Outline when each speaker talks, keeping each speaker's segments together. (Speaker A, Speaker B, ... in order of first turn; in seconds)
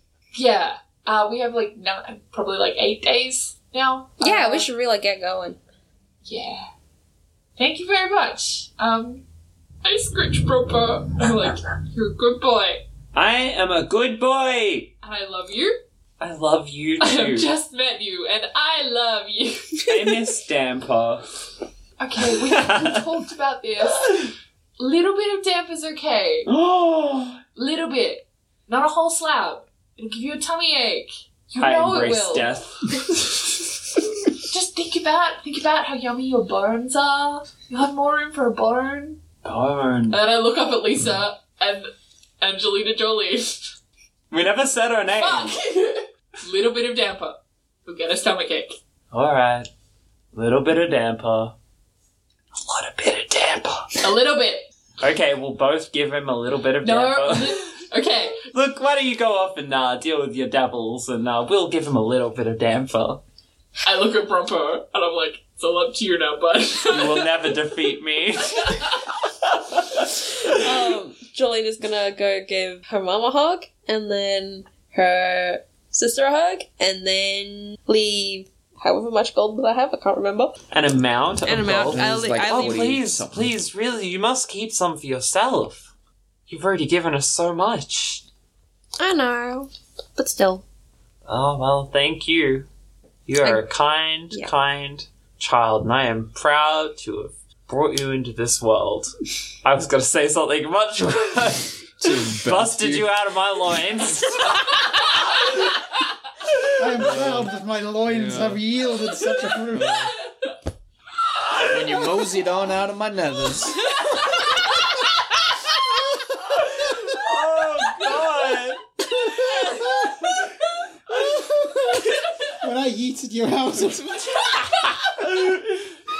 Speaker A: 0.3-4.7, 6.2-6.7, 7.6-9.2, 9.8-12.8, 15.0-15.8, 17.0-19.9, 22.0-26.5, 27.5-33.1, 34.3-39.2, 40.1-43.7, 45.2-48.8, 54.0-54.7, 56.8-58.4, 63.8-67.6, 68.5-69.1
Speaker B: 4.2-5.6, 70.5-80.5, 82.1-82.6, 89.0-90.6
Speaker C: 13.1-14.9, 16.2-17.5, 19.9-21.3, 22.4-23.0, 26.4-27.4, 31.6-33.4, 39.4-40.2, 44.3-45.5, 49.1-49.7, 50.3-51.5, 52.6-54.0, 55.0-57.6, 58.4-63.2, 66.9-68.8, 69.8-70.0, 80.7-85.9, 86.5-88.2, 91.3-92.7, 93.3-105.5, 116.5-119.8
Speaker D: 81.5-83.5, 102.0-103.1, 107.0-107.5, 108.1-108.6, 111.6-113.8
Speaker E: 106.8-110.1, 119.6-120.3, 121.2-124.3